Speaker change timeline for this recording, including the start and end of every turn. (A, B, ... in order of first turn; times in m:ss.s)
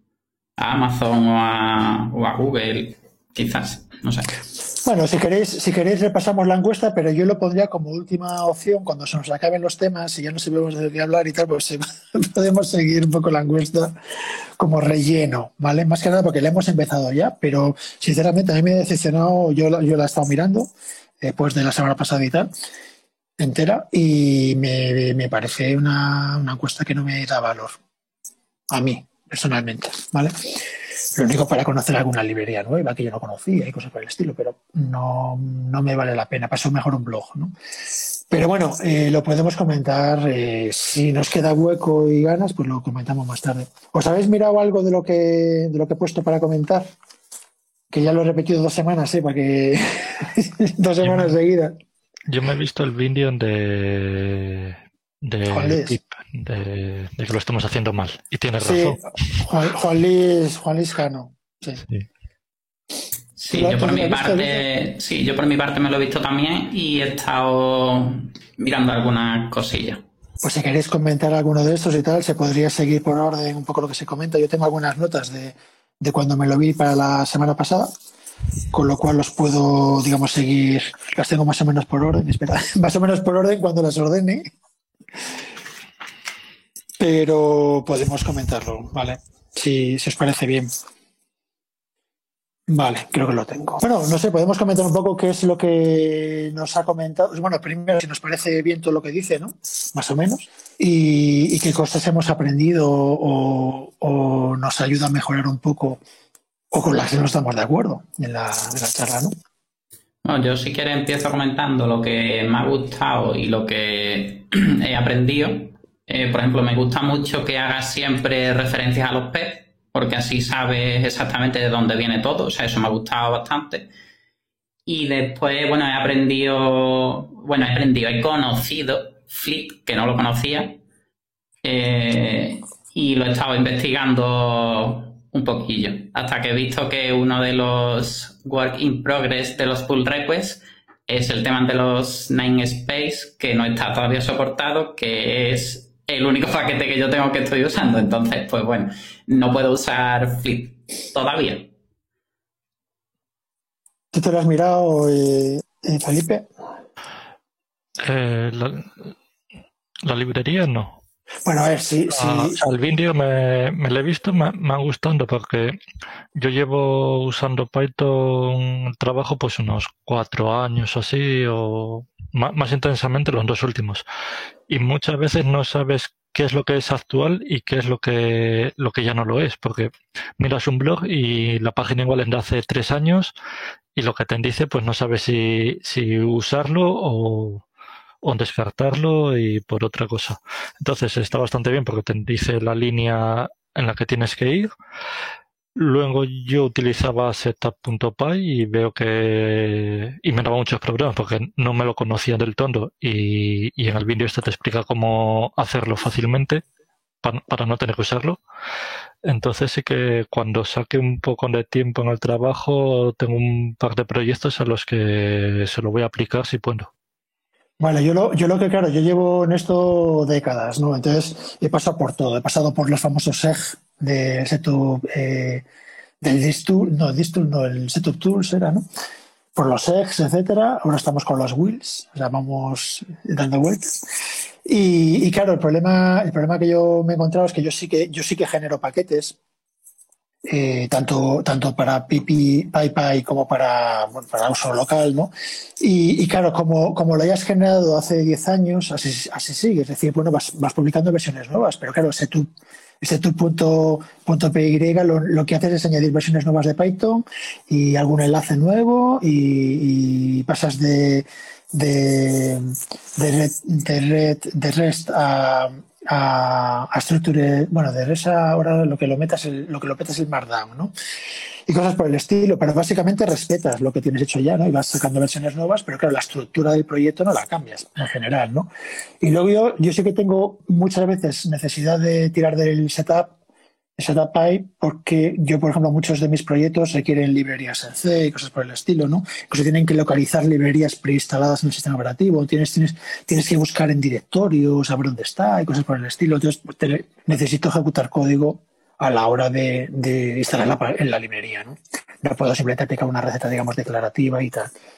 0:00.6-0:04.3 A
0:04.8-0:13.9 B
0:14.6-0:20.7 B
0:21.2-0:22.5 B
0:23.4-0:27.8 B
0:28.7-0:30.6 B
0:31.2-0:37.5 B
0:38.3-0:46.9 B
0:47.9-0:51.8 B
0:51.0-0:51.3 C
0:52.3-0:59.4 C
0:55.5-0:56.0 B
0:58.6-1:01.8 B
1:03.4-1:10.0 A
1:03.5-1:04.6 B
1:10.4-1:17.9 B
1:18.7-1:24.5 B
1:27.0-1:30.7 B
1:32.7-1:46.0 B
1:46.7-1:49.3 B
1:50.2-2:03.9 A
2:04.8-2:10.8 A
2:11.6-2:31.7 A
2:34.1-2:36.5 B
2:38.0-2:39.1 C
2:40.0-2:41.0 C
2:41.4-2:42.6 B
2:42.1-2:45.8 C
2:46.4-2:54.0 C
2:54.7-3:03.3 C
3:04.0-3:07.6 C
3:08.2-3:14.7 C
3:15.8-3:26.6 C
3:27.2-3:28.4 C
3:29.2-3:36.9 C
3:37.8-3:45.6 B
3:46.2-3:48.8 B
3:49.6-3:54.0 B
3:54.6-3:59.4 B
4:00.4-4:12.5 B
4:13.0-4:30.9 B
4:31.7-4:38.7 B
4:39.2-4:43.3 B
4:44.0-5:04.7 B